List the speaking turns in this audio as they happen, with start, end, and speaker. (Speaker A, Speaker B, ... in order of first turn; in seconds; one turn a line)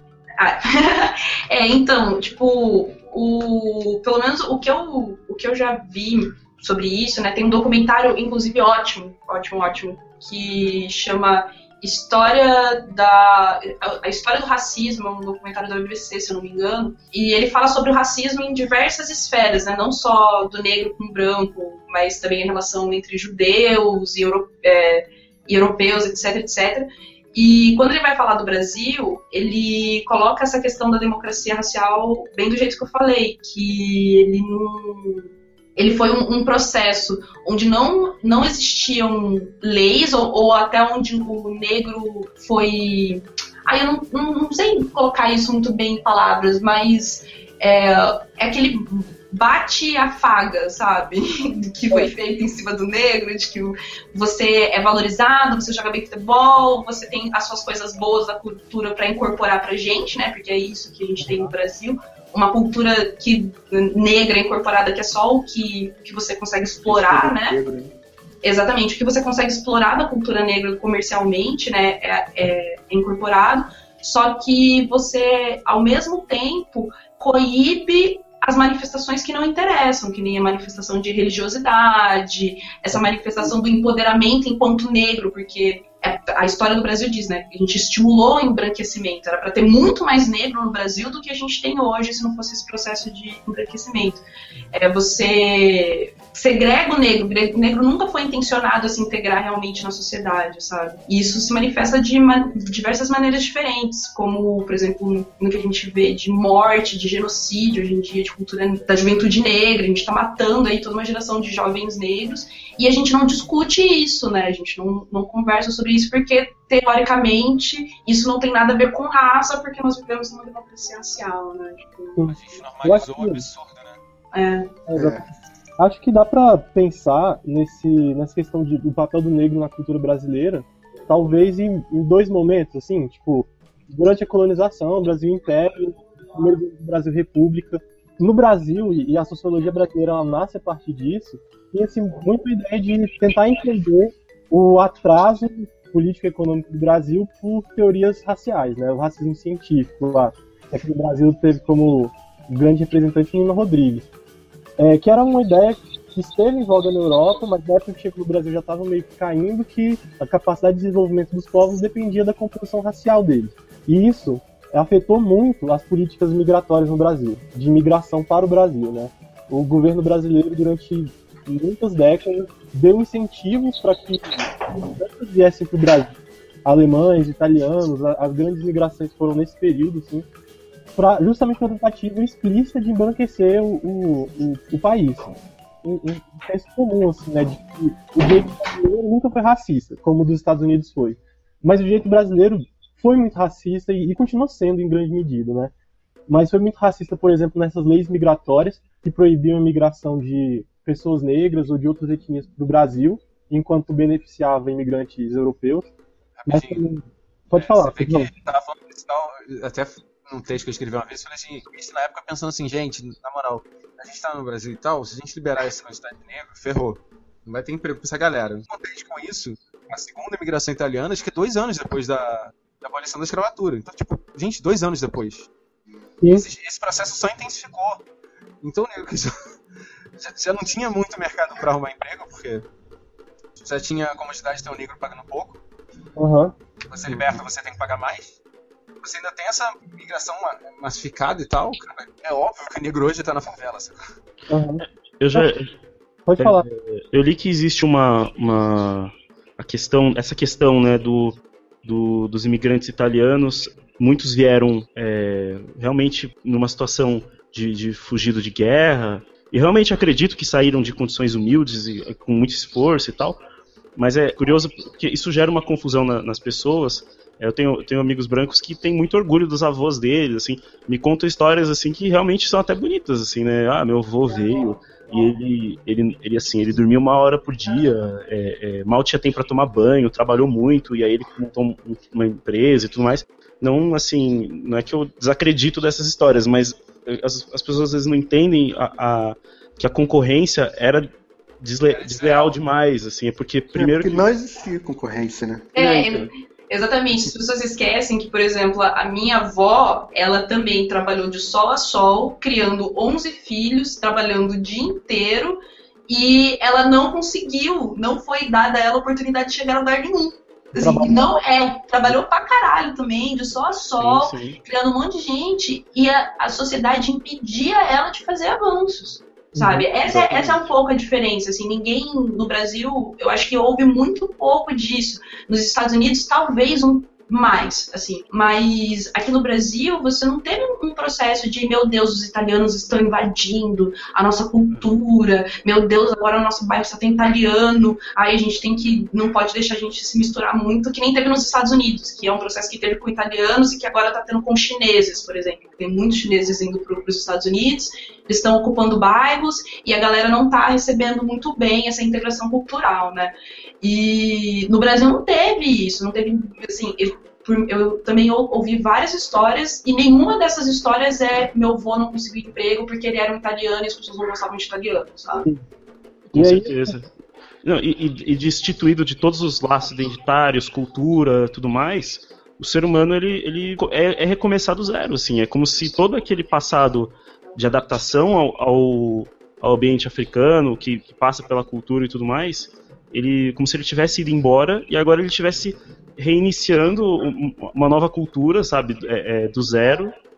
Speaker A: 0.4-67.6
Speaker B: 61.2-61.5
Speaker C: 66.9-67.9
Speaker A: 68.4-122.2
Speaker B: 122.2-123.5
Speaker D: 122.2-124.0
Speaker A: 124.3-124.7
Speaker B: 124.9-125.2
Speaker C: 125.0-125.2
Speaker B: 125.8-154.1
Speaker B: 154.8-180.3
Speaker B: 181.0-185.3
Speaker B: 185.8-195.7
Speaker B: 196.3-205.9
Speaker D: 206.4-206.9
Speaker B: 206.5-208.3
Speaker D: 207.5-225.5
Speaker D: 226.3-228.0
Speaker D: 228.6-229.3
Speaker D: 230.2-232.7
Speaker D: 233.6-235.6
Speaker B: 236.2-236.5
Speaker D: 236.9-238.4
Speaker D: 239.0-244.1
Speaker B: 244.5-245.5
Speaker E: 245.2-245.7
Speaker B: 246.3-246.7
Speaker E: 246.4-263.4
Speaker E: 264.0-291.1
Speaker E: 291.6-294.2
Speaker D: 291.9-292.6
Speaker C: 293.8-296.2
Speaker A: 295.7-365.5
Speaker B: 310.8-311.2
Speaker E: 314.0-314.6
Speaker B: 319.6-319.9
Speaker C: 320.1-320.4
Speaker E: 366.3-367.1
Speaker B: 366.4-367.0
Speaker E: 367.6-390.1